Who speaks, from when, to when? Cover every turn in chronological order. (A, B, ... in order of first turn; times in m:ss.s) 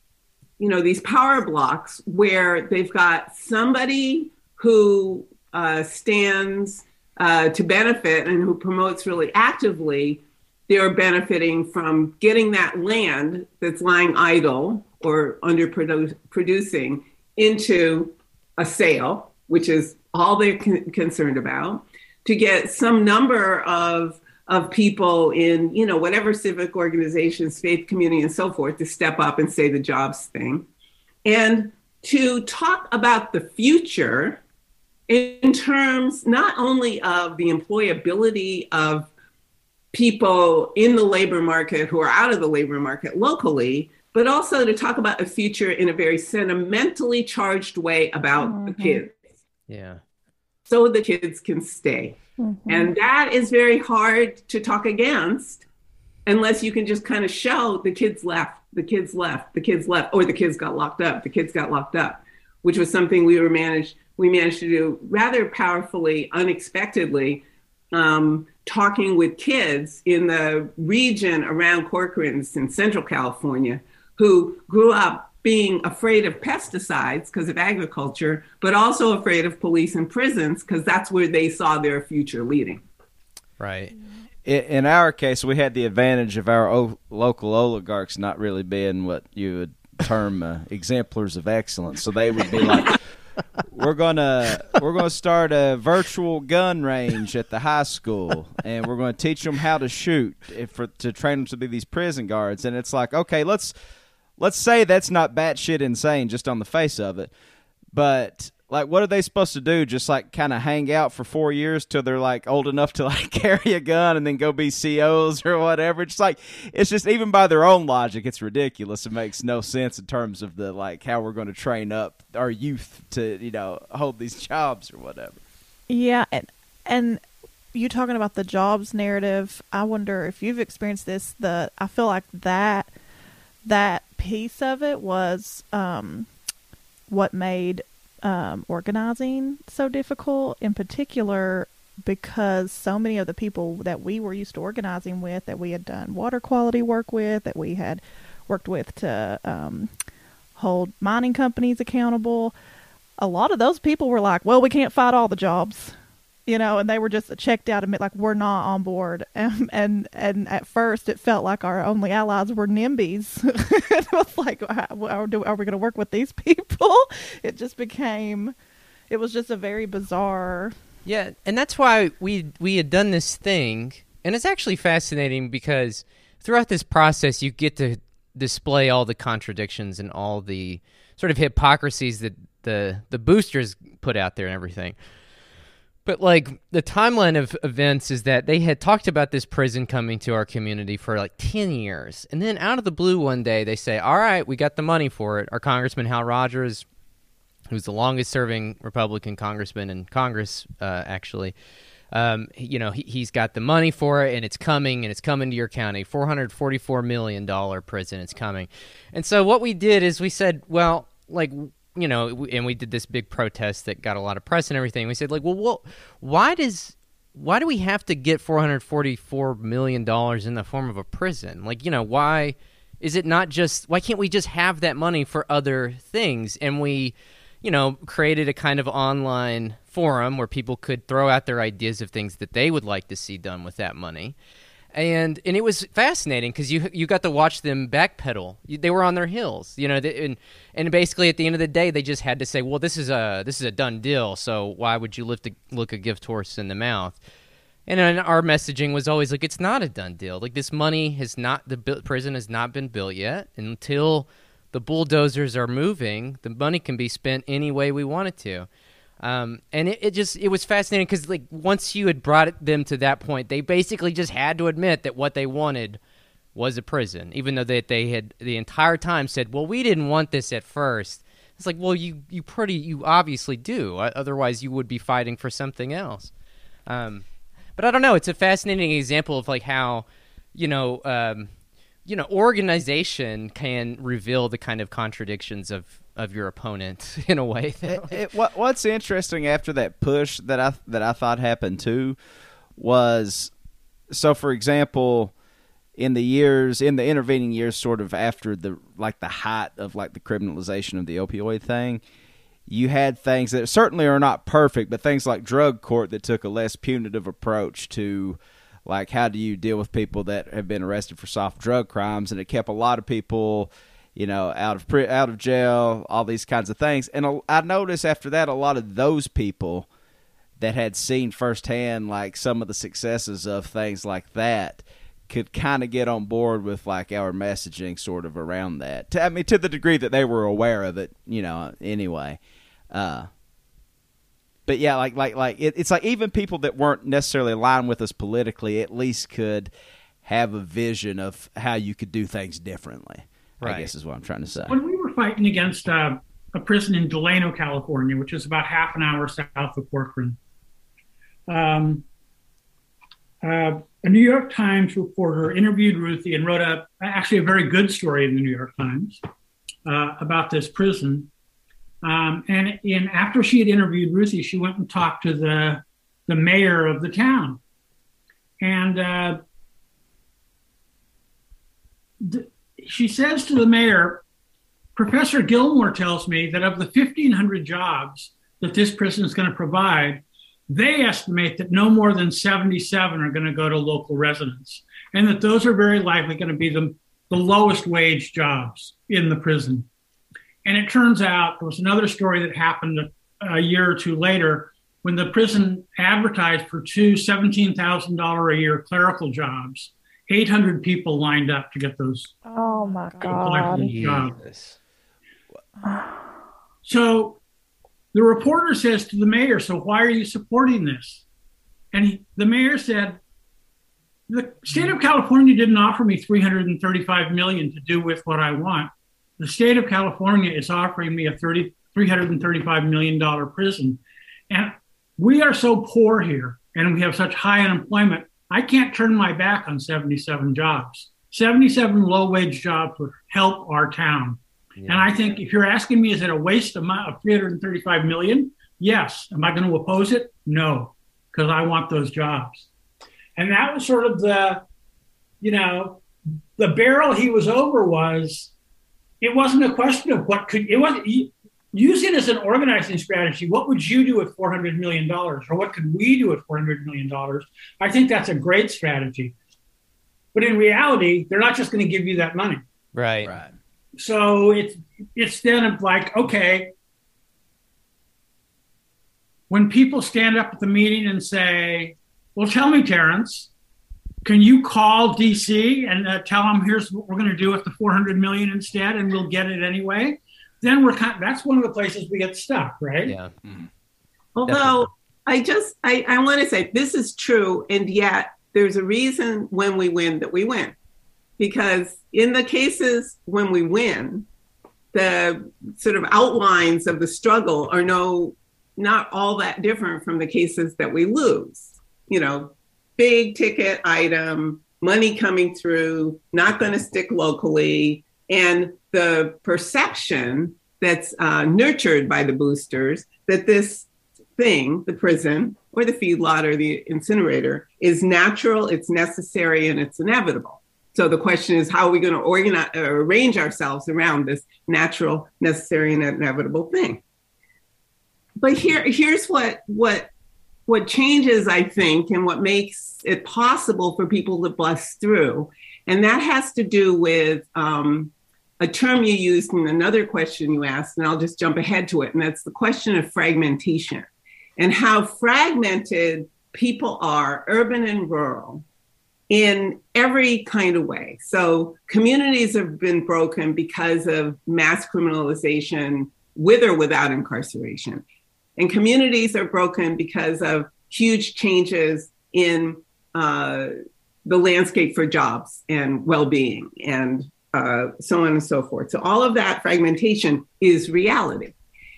0:00.6-0:30.6 A
0:31.2-0:34.4 A
0:35.1-0:39.1 A
0:39.9-0:49.1 A
0:48.4-0:49.0 B
0:49.7-0:50.0 C
0:50.7-0:55.6 A
0:52.4-0:52.9 B
0:56.2-1:22.8 A
1:23.6-1:23.9 C
1:24.4-1:33.0 D
1:33.7-1:43.7 D
1:44.4-1:47.3 D
1:47.9-2:05.4 D
2:05.9-2:07.2 B
2:07.7-2:12.9 B
2:13.6-2:16.3 B
2:17.1-2:29.9 B
2:30.6-2:32.5 B
2:33.2-2:35.9 B
2:36.4-2:48.5 B
2:49.1-2:50.7 B
2:51.0-3:05.0 C
3:06.0-3:16.8 C
3:17.7-3:21.5 C
3:22.1-3:54.3 C
3:54.9-4:07.2 C
4:07.9-4:18.7 C
4:19.2-4:26.0 C
4:26.5-4:36.3 C
4:36.9-4:37.2 C
4:37.8-4:41.5 C
4:42.0-4:48.2 C
4:47.9-4:52.2 D
4:52.8-4:53.5 D
4:54.1-4:55.3 D
4:56.0-5:02.0 D
5:02.7-5:19.9 D
5:20.6-5:32.4 D
5:32.9-5:33.3 D
5:34.7-5:39.7 D
5:40.2-5:44.7 D
5:43.6-5:43.9 C
5:44.7-5:50.4 E
5:51.5-5:52.0 E
5:53.4-5:59.2 E
5:59.8-6:01.3 E
6:02.0-6:07.6 E
6:08.6-6:09.4 E
6:12.2-6:14.2 E
6:15.0-6:29.8 E
6:30.6-6:42.3 E
6:42.4-6:43.9 B
6:43.2-6:44.3 E
6:43.8-6:44.8 C
6:45.8-6:46.1 B
6:46.8-6:47.4 E
6:48.1-6:51.2 E
6:51.9-6:53.2 E
6:54.3-7:22.7 E
7:14.8-7:15.1 C
7:23.4-7:24.6 E
7:25.4-7:26.0 E
7:26.6-7:28.5 E
7:29.2-7:39.3 E
7:40.3-7:42.6 E
7:42.9-7:43.3 C
7:43.2-7:43.5 D
7:44.0-7:46.7 E
7:49.5-7:53.5 E
7:54.2-8:03.1 E
8:03.0-8:03.3 C
8:04.4-8:10.7 A
8:04.5-8:04.9 C
8:11.4-8:14.3 A
8:14.9-8:47.0 A
8:48.4-8:50.1 A
8:50.7-9:08.6 A
9:09.3-9:18.0 A
9:18.6-9:23.7 A
9:24.2-9:31.5 A